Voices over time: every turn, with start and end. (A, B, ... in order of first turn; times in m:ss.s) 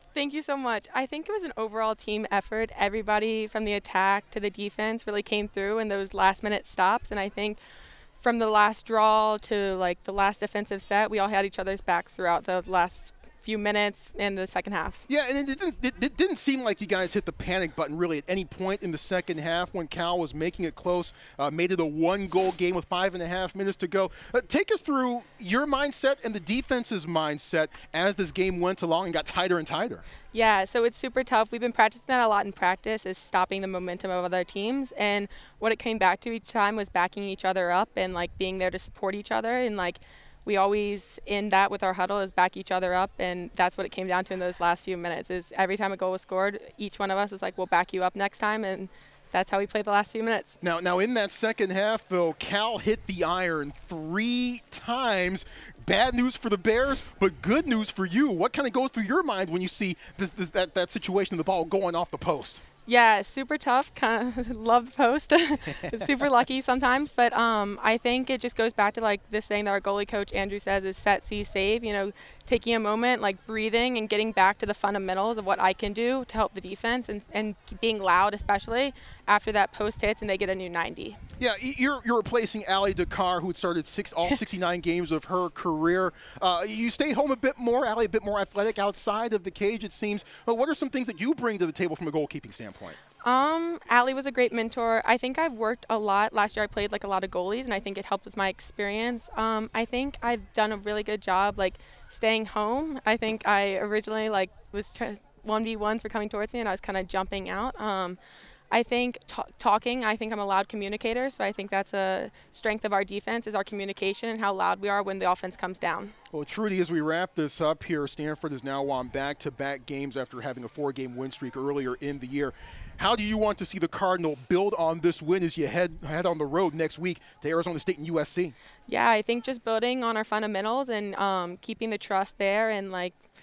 0:00.1-0:07.6 A
0:08.2-0:15.0 A
0:15.1-0:30.0 B
0:30.3-0:50.6 A
0:50.6-1:02.6 B
1:02.9-1:21.2 A
1:21.4-1:33.0 B
1:33.2-1:48.2 A
1:48.7-1:56.1 A
1:56.3-2:08.5 B
2:08.9-2:13.2 A